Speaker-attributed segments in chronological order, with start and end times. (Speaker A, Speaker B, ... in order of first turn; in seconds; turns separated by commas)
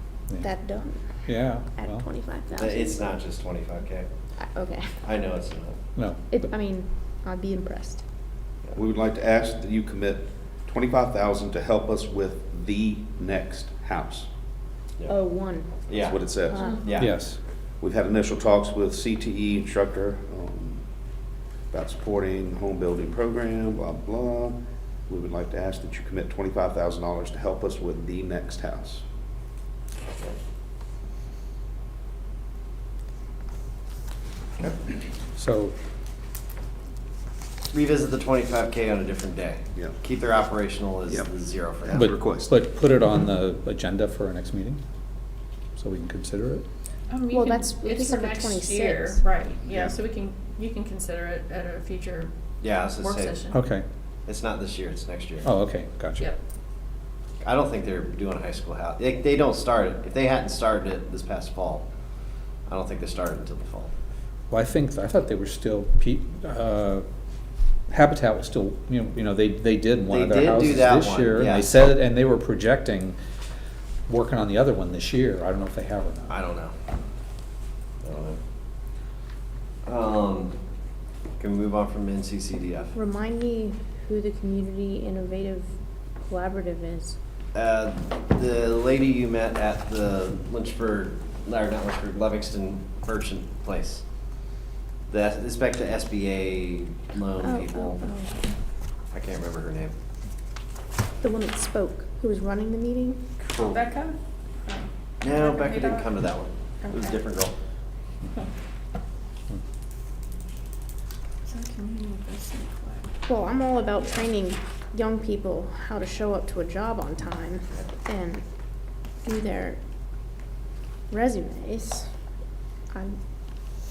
Speaker A: 0.3-3.1, Speaker B: 1.2-2.1, Speaker C: 2.5-4.1, Speaker A: 4.4-5.0, Speaker C: 5.0-5.8, Speaker B: 6.0-6.4, Speaker A: 6.3-8.0, Speaker D: 8.7-14.3, Speaker A: 15.1-17.0, Speaker C: 15.8-17.2, Speaker D: 16.0-17.1, Speaker B: 17.0-17.4, Speaker D: 17.8-20.8, Speaker D: 21.7-29.0, Speaker B: 35.4-35.7, Speaker C: 37.7-42.1, Speaker D: 41.1-42.5, Speaker B: 41.9-44.8, Speaker B: 45.8-46.7, Speaker E: 47.1-52.3, Speaker A: 47.3-49.2, Speaker D: 49.7-49.9, Speaker C: 52.6-53.4, Speaker E: 53.0-53.6, Speaker B: 53.5-53.8, Speaker C: 54.2-55.5, Speaker B: 55.4-56.3, Speaker C: 57.4-61.8, Speaker C: 62.7-63.9, Speaker B: 64.5-67.0, Speaker B: 67.9-73.2, Speaker C: 70.1-71.8, Speaker B: 74.1-76.3, Speaker C: 76.3-76.7, Speaker C: 78.0-78.4, Speaker C: 79.8-80.5, Speaker C: 81.4-83.0, Speaker A: 82.9-85.7, Speaker A: 86.2-87.2, Speaker C: 87.5-94.0, Speaker C: 95.1-98.1, Speaker A: 97.4-98.4, Speaker C: 99.1-99.9, Speaker A: 101.2-103.3, Speaker C: 103.4-103.9, Speaker E: 103.6-106.1, Speaker C: 105.2-107.5, Speaker E: 106.8-107.2, Speaker E: 111.5-113.1, Speaker A: 113.2-118.4, Speaker A: 119.2-119.8, Speaker A: 121.1-122.1, Speaker A: 122.9-123.2